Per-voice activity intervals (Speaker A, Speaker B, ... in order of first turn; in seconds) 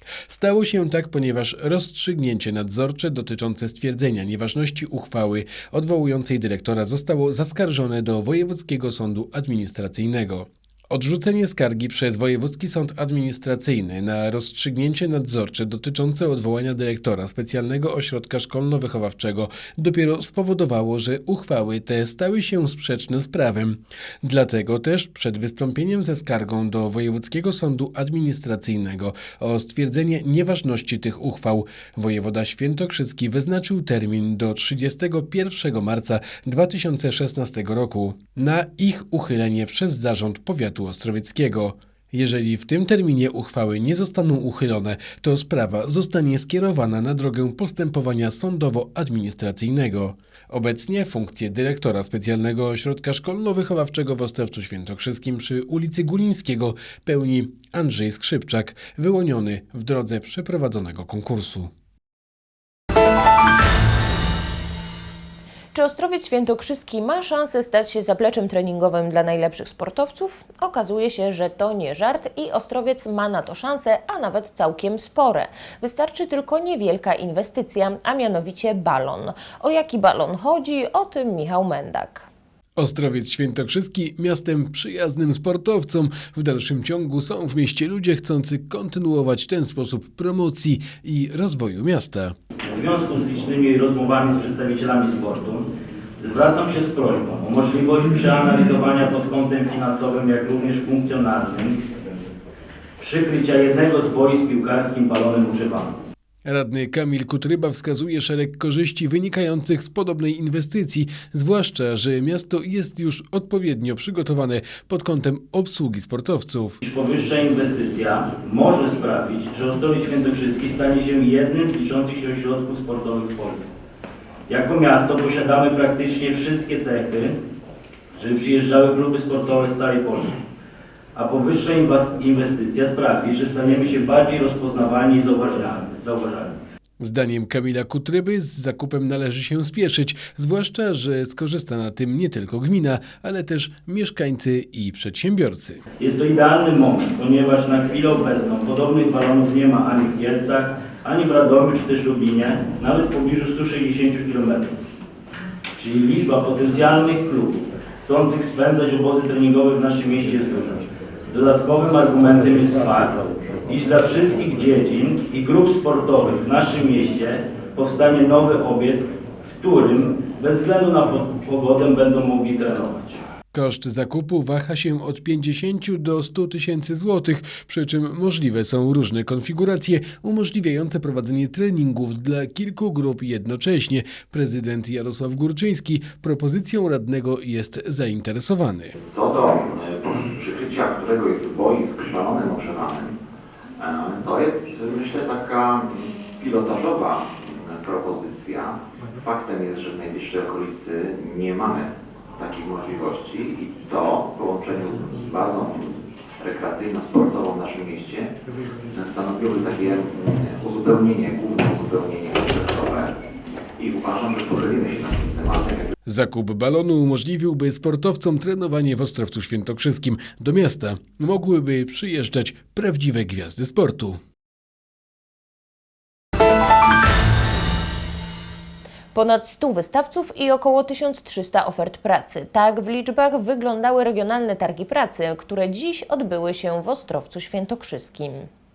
Speaker A: 0.3-61.7, 82.8-92.3, 106.4-116.8, 137.0-145.8, 173.5-188.9, 216.1-224.2
Speaker B: 65.7-82.3, 229.1-238.5
Speaker C: 92.7-95.7, 96.2-101.8, 103.0-105.9, 116.8-123.7, 124.5-127.3, 128.2-130.3, 131.1-136.6, 146.0-154.7, 155.8-163.1, 163.7-169.0, 169.6-173.2
Speaker D: 189.1-193.1, 193.8-208.3, 208.9-213.1, 213.8-215.9